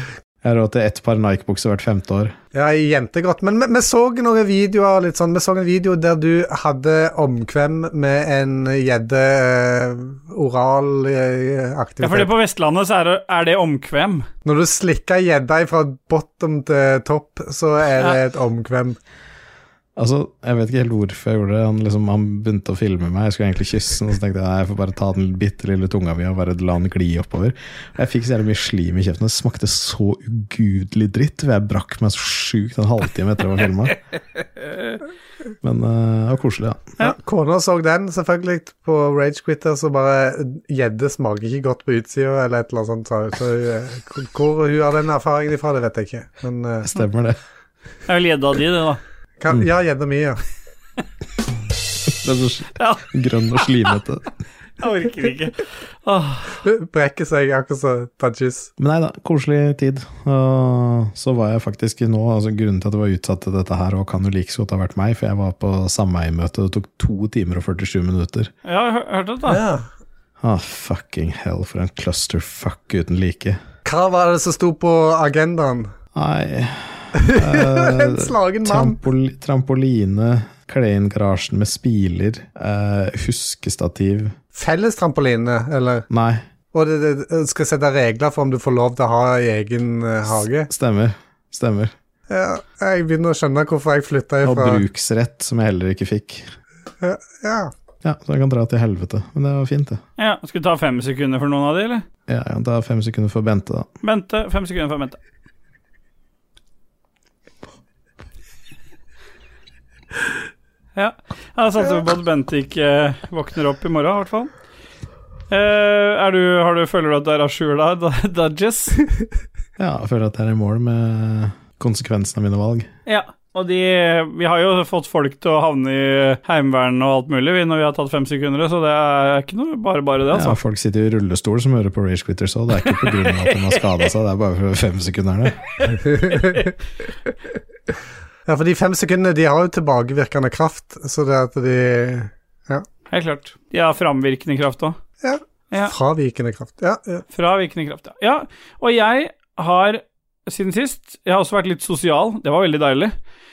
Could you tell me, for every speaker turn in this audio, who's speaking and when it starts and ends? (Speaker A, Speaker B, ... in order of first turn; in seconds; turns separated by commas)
Speaker A: 0.4-2.4, Speaker B: 2.5-12.3, Speaker C: 12.0-14.3, Speaker B: 14.4-19.0, Speaker A: 20.0-34.0, Speaker A: 35.6-36.9, Speaker B: 37.0-46.9, Speaker A: 46.8-47.4, Speaker C: 48.1-49.0, Speaker B: 49.4-50.4, Speaker A: 52.2-54.3, Speaker C: 52.8-53.0, Speaker C: 53.6-53.9, Speaker C: 54.8-56.6, Speaker B: 56.6-58.7, Speaker A: 58.8-68.5, Speaker C: 68.6-69.6, Speaker B: 69.5-69.9, Speaker A: 70.4-73.6, Speaker B: 73.8-75.9, Speaker A: 76.1-84.3, Speaker B: 77.1-79.0, Speaker B: 84.5-86.0, Speaker A: 86.1-86.4, Speaker B: 86.7-90.7, Speaker A: 90.7-91.9, Speaker B: 92.3-94.8, Speaker A: 94.4-96.5, Speaker B: 97.0-97.7, Speaker A: 98.0-100.0, Speaker C: 100.2-102.0, Speaker A: 102.3-103.9, Speaker C: 104.0-105.2, Speaker C: 111.0-114.5, Speaker C: 115.5-119.0, Speaker A: 119.8-122.9, Speaker C: 123.0-130.6, Speaker A: 130.3-135.6, Speaker C: 132.9-134.0, Speaker B: 136.0-136.7, Speaker B: 138.4-142.8, Speaker C: 143.1-145.0, Speaker B: 145.2-147.2, Speaker C: 147.3-153.1